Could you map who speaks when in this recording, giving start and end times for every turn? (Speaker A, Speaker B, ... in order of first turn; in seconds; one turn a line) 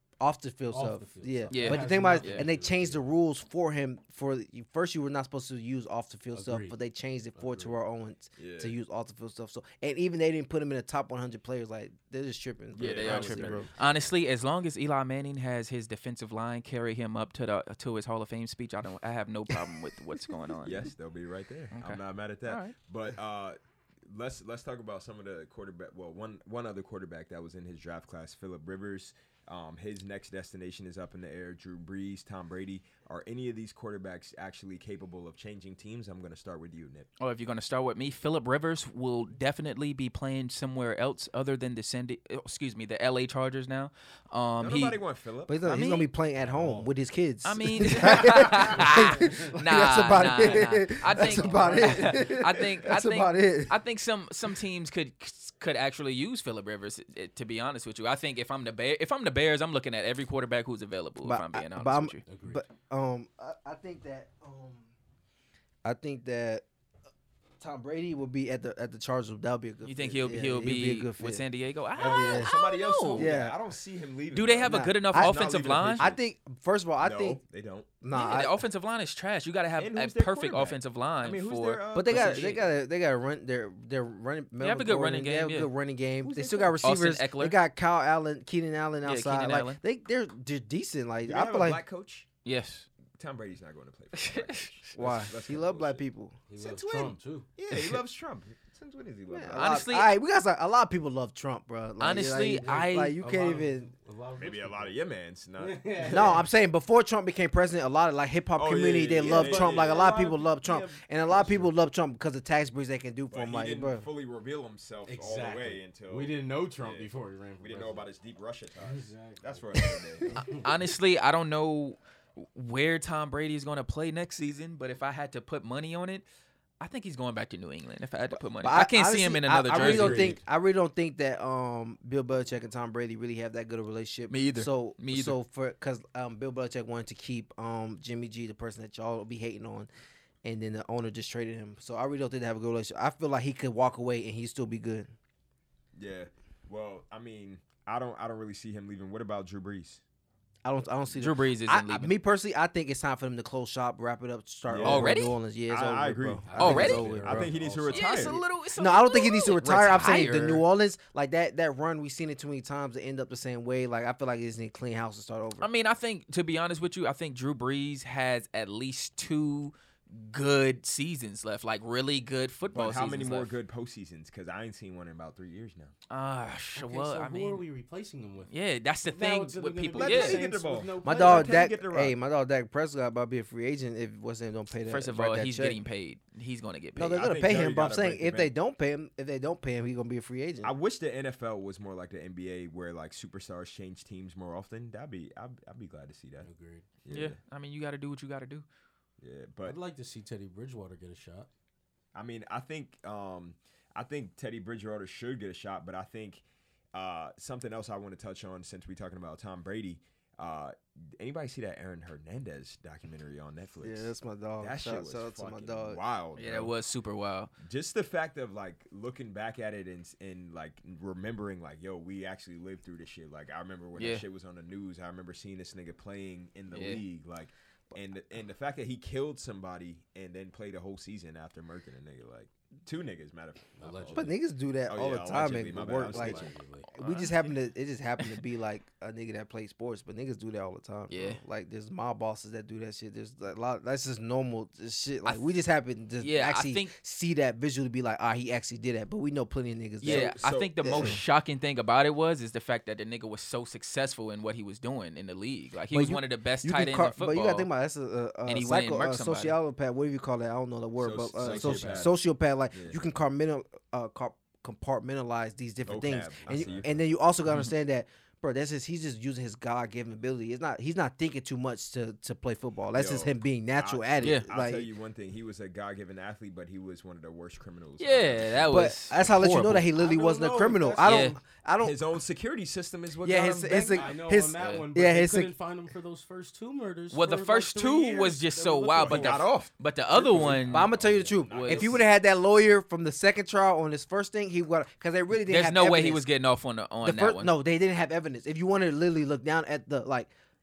Speaker A: 0.2-13.7
Speaker B: 0.7-3.1
Speaker C: 1.5-2.5
Speaker B: 6.3-6.8
Speaker B: 7.3-7.7
Speaker D: 8.4-8.7
Speaker D: 12.7-13.7
Speaker C: 12.8-20.9
Speaker D: 20.6-37.1
Speaker C: 21.7-22.7
Speaker C: 37.2-45.0
Speaker D: 44.6-45.6
Speaker A: 45.5-53.7
Speaker C: 45.6-46.1
Speaker B: 46.4-46.9
Speaker C: 47.4-62.2
Speaker B: 48.6-49.5
Speaker B: 50.1-52.3
Speaker A: 61.2-64.9
Speaker B: 62.2-62.6
Speaker A: 65.8-66.6
Speaker A: 67.6-71.4
Speaker C: 69.8-73.3
Speaker D: 72.0-76.2
Speaker A: 72.0-72.5
Speaker A: 73.2-73.5
Speaker C: 74.3-76.0
Speaker A: 74.7-75.4
Speaker A: 76.0-77.4
Speaker D: 77.0-77.9
Speaker A: 78.0-78.6
Speaker C: 78.1-82.7
Speaker D: 79.8-82.6
Speaker A: 81.9-91.8
Speaker C: 84.6-85.7
Speaker D: 86.2-86.8
Speaker C: 86.8-87.5
Speaker C: 89.0-89.8
Speaker D: 91.2-92.3
Speaker C: 92.4-92.9
Speaker D: 93.1-96.0
Speaker C: 94.1-94.7
Speaker A: 95.0-96.4
Speaker B: 96.5-97.5
Speaker D: 96.5-99.8
Speaker C: 97.7-98.0
Speaker A: 99.3-103.9
Speaker C: 99.5-100.1
Speaker C: 102.0-103.2
Speaker B: 102.1-105.0
Speaker D: 104.3-106.4
Speaker B: 105.6-106.5
Speaker A: 106.1-114.0
Speaker D: 108.5-110.2
Speaker B: 109.2-111.7
Speaker D: 113.3-120.4
Speaker B: 115.0-118.1
Speaker B: 118.8-120.7
Speaker C: 120.4-126.2
Speaker C: 126.8-130.4
Speaker A: 128.6-139.9
Speaker B: 129.7-130.4
Speaker C: 134.3-135.3
Speaker A: 140.4-145.1
Speaker D: 145.9-150.0
Speaker A: 150.6-157.5
Speaker C: 151.1-152.1
Speaker D: 154.7-158.4
Speaker C: 154.8-155.4
Speaker B: 156.5-158.4
Speaker C: 156.6-157.1
Speaker C: 157.9-160.6
Speaker A: 158.8-165.7
Speaker C: 165.6-173.5
Speaker D: 172.7-175.9
Speaker C: 176.1-177.6
Speaker B: 176.8-178.5
Speaker C: 178.5-180.4
Speaker B: 179.1-181.6
Speaker D: 179.9-182.2
Speaker A: 181.0-185.8
Speaker C: 184.9-187.2
Speaker A: 186.9-190.7
Speaker D: 187.1-188.5
Speaker D: 190.6-196.5
Speaker B: 196.4-196.8
Speaker D: 197.0-197.4
Speaker C: 197.1-198.6
Speaker D: 199.2-199.8
Speaker B: 199.6-201.5
Speaker D: 202.1-216.7
Speaker A: 213.8-216.0
Speaker C: 216.3-217.5
Speaker D: 217.6-234.3
Speaker C: 224.0-224.2
Speaker C: 226.7-227.0
Speaker B: 233.8-234.3
Speaker A: 234.1-251.2
Speaker D: 234.9-236.5
Speaker B: 236.0-236.9
Speaker C: 237.0-237.5
Speaker C: 241.1-241.4
Speaker C: 246.2-246.9
Speaker C: 250.0-257.7
Speaker D: 250.0-251.2
Speaker A: 255.9-274.9
Speaker C: 258.5-259.5
Speaker D: 261.0-262.1
Speaker B: 261.4-262.1
Speaker D: 262.7-263.0
Speaker D: 265.8-267.0
Speaker B: 266.6-266.9
Speaker D: 272.9-278.9
Speaker C: 278.0-279.9
Speaker A: 278.7-282.0
Speaker B: 279.9-281.4
Speaker C: 281.0-281.4
Speaker D: 281.8-284.1
Speaker A: 283.2-285.5
Speaker B: 283.9-289.4
Speaker C: 284.6-284.8
Speaker C: 287.1-290.9
Speaker D: 289.0-292.0
Speaker B: 290.2-290.6
Speaker A: 290.7-296.2
Speaker B: 291.6-291.9
Speaker C: 295.4-297.5
Speaker A: 297.0-300.3